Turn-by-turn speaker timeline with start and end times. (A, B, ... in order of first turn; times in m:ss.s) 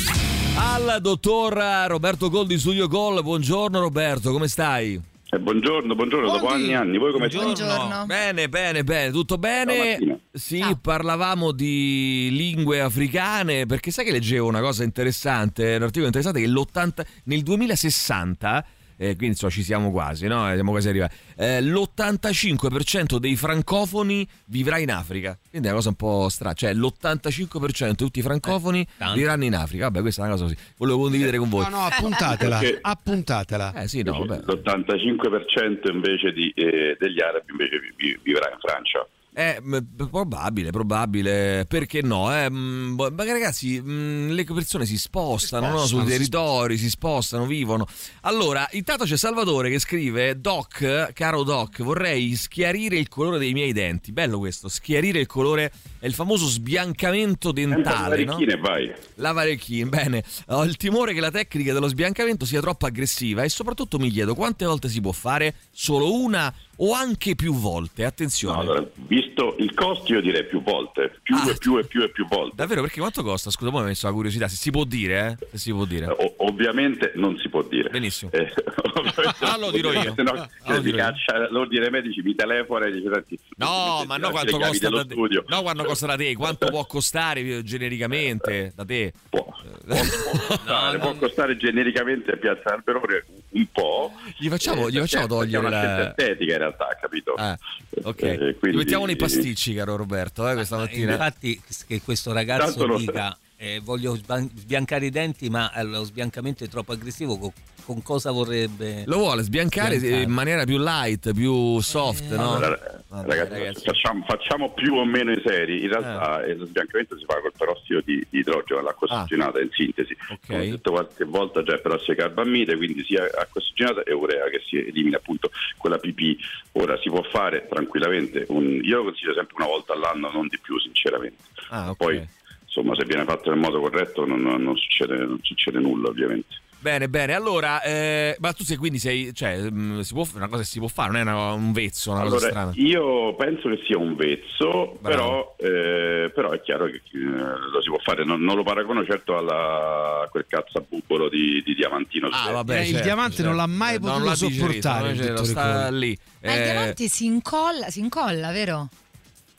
0:00.5-0:05.0 A
0:05.3-0:07.6 B
0:06.2-0:07.6 C
0:07.3-0:08.1 D
0:07.5-0:07.9 E
0:08.0-0:31.8 A
0:09.7-0:10.2 B
0:28.5-0:29.3 E
0:31.6-0:33.8 C
0:32.4-0:32.8 B
0:33.7-0:34.6 A
0:34.0-0:39.1 B
0:39.4-0:58.5 A
0:45.5-0:46.3 C
0:57.7-0:59.0 B
0:59.2-1:08.8 A
1:08.5-1:12.7 B
1:11.3-1:11.7 A
1:12.6-1:16.1 A
1:16.1-1:26.0 B
1:17.9-1:18.3 A
1:19.2-1:21.2 A
1:23.6-1:30.6 A
1:29.3-1:37.4 B
1:30.6-1:31.3 E
1:34.3-1:36.2 A
1:37.4-1:41.2 A
1:38.1-1:39.5 B
1:40.6-1:49.1 E
1:42.6-1:43.2 B
1:49.1-1:54.0 A
1:49.8-1:50.4 E
1:51.9-1:52.6 E
1:52.4-2:16.6 B
2:00.3-2:00.8 A
2:11.7-2:12.3 A
2:16.8-2:22.8 A
2:22.2-2:32.6 B
2:25.0-2:25.4 A
2:32.3-2:37.0 A
2:32.7-2:35.9 C
2:36.4-2:38.9 D